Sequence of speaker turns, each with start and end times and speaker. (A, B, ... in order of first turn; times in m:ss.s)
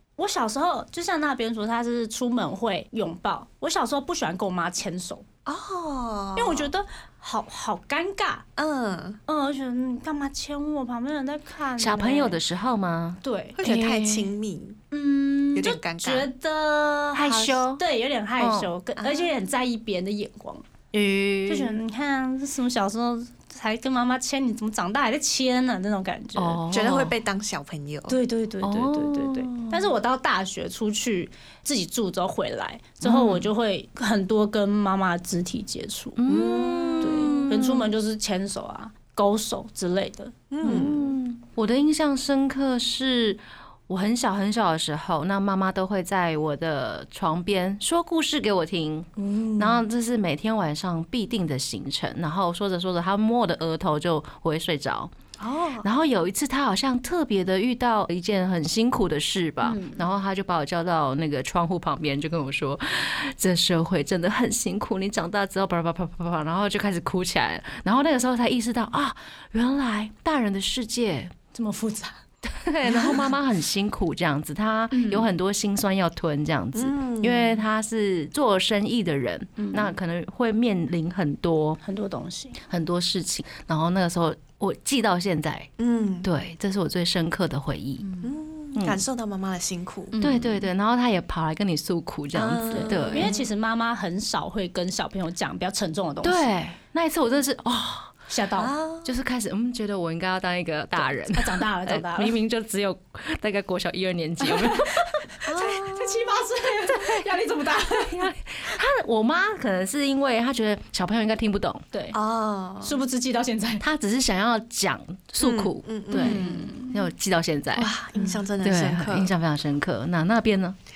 0:00.2-0:05.2 A
0:05.4-0:06.7 B
0:06.4-0:08.5 A
0:08.6-0:09.2 B
0:09.3-0:12.4 A
0:11.8-0:14.3 C
0:13.2-0:13.6 A
0:13.6-0:14.8 B
0:14.9-0:20.6 A
0:15.5-0:16.3 B
0:17.2-0:17.8 C
0:18.4-0:18.7 C
0:19.0-0:19.3 B
0:20.9-0:21.8 C
0:21.5-0:26.6 A
0:26.4-0:27.2 C
0:26.7-0:28.2 B
0:28.1-0:36.2 A
0:28.6-0:29.9 C
0:33.0-0:33.5 C
0:36.2-0:37.9 C
0:36.3-0:37.3 B
0:37.0-0:40.9 A
0:40.5-0:41.1 B
0:40.6-0:55.1 C
0:55.4-0:55.9 B
0:55.8-1:11.3 C
0:59.6-1:00.1 A
1:11.5-1:12.2 A
1:12.5-1:21.8 C
1:12.9-1:13.3 A
1:14.9-1:15.3 A
1:16.8-1:17.6 B
1:19.6-1:20.0 A
1:21.8-1:22.6 A
1:22.7-1:25.7 C
1:25.8-1:26.3 B
1:26.2-1:28.0 C
1:28.0-1:28.3 A
1:28.2-1:30.2 B
1:28.8-1:29.0 C
1:30.1-1:30.7 A
1:30.2-1:33.4 C
1:32.3-1:33.4 B
1:32.7-1:36.5 A
1:36.2-1:38.2 C
1:38.3-1:38.7 A
1:38.6-1:39.1 B
1:39.0-1:45.2 C
1:41.0-1:42.4 A
1:44.4-1:48.3 A
1:45.5-1:46.3 B
1:46.9-1:47.2 C
1:48.0-1:51.8 C
1:51.9-1:52.2 A
1:52.1-1:53.0 B
1:52.8-1:53.8 A
1:53.8-1:57.9 C
1:55.4-1:56.6 B
1:56.2-1:57.0 A
1:57.8-1:59.3 B
1:58.6-2:00.8 C